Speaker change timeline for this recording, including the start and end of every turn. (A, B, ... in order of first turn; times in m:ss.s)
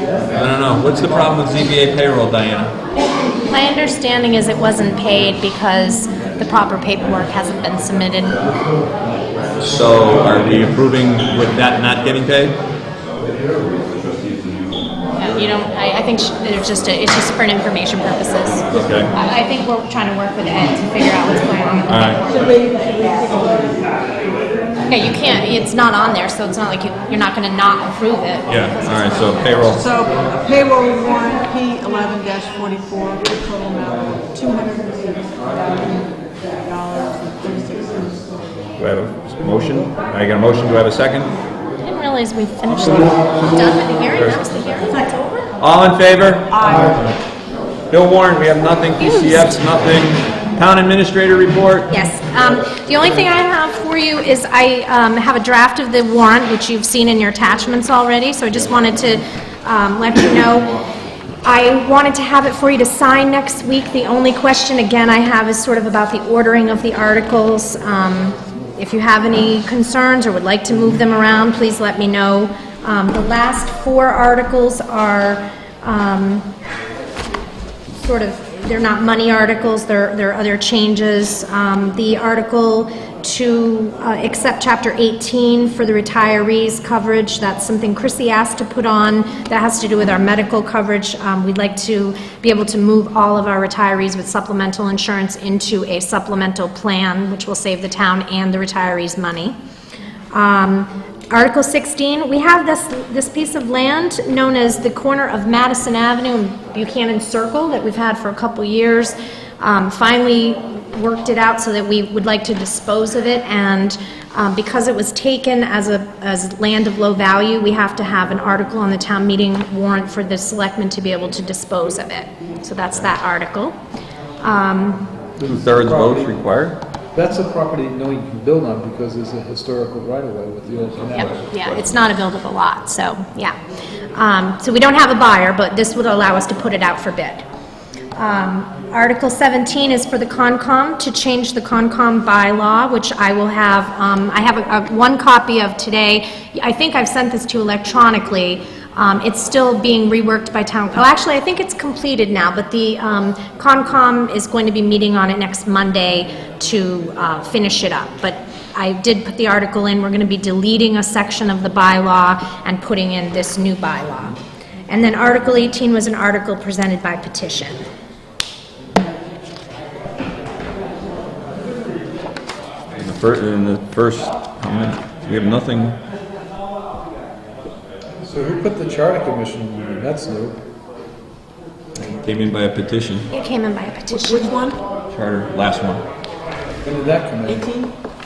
0:00.3-0:02.7 A
0:03.5-0:08.5 B
0:09.6-0:12.6 A
0:15.2-0:22.2 B
0:18.7-0:19.1 A
0:21.9-0:22.3 A
0:22.4-0:23.7 C
0:24.9-0:29.7 B
0:28.5-0:29.8 A
0:29.7-0:38.2 C
0:38.8-0:41.3 A
0:41.8-0:45.0 B
0:44.1-0:44.4 A
0:44.9-0:45.4 C
0:45.6-0:46.6 A
0:46.5-0:47.1 C
0:47.9-0:51.9 A
0:49.0-0:49.6 B
0:51.9-1:00.8 B
1:01.4-1:16.5 B
1:17.9-1:39.5 B
1:40.3-2:03.8 B
2:04.4-2:05.1 B
2:05.4-2:06.4 D
2:05.5-2:06.8 A
2:07.1-2:11.3 D
2:10.9-2:11.9 A
2:11.2-2:13.6 B
2:14.1-2:17.4 B
2:18.2-2:44.4 B
2:44.9-2:47.8 B
2:53.0-2:56.0 A
2:58.2-3:00.6 D
3:02.0-3:03.3 A
3:03.3-3:04.5 B
3:04.1-3:04.8 C
3:05.1-3:06.0 A
3:06.8-3:07.7 D
3:07.5-3:07.9 C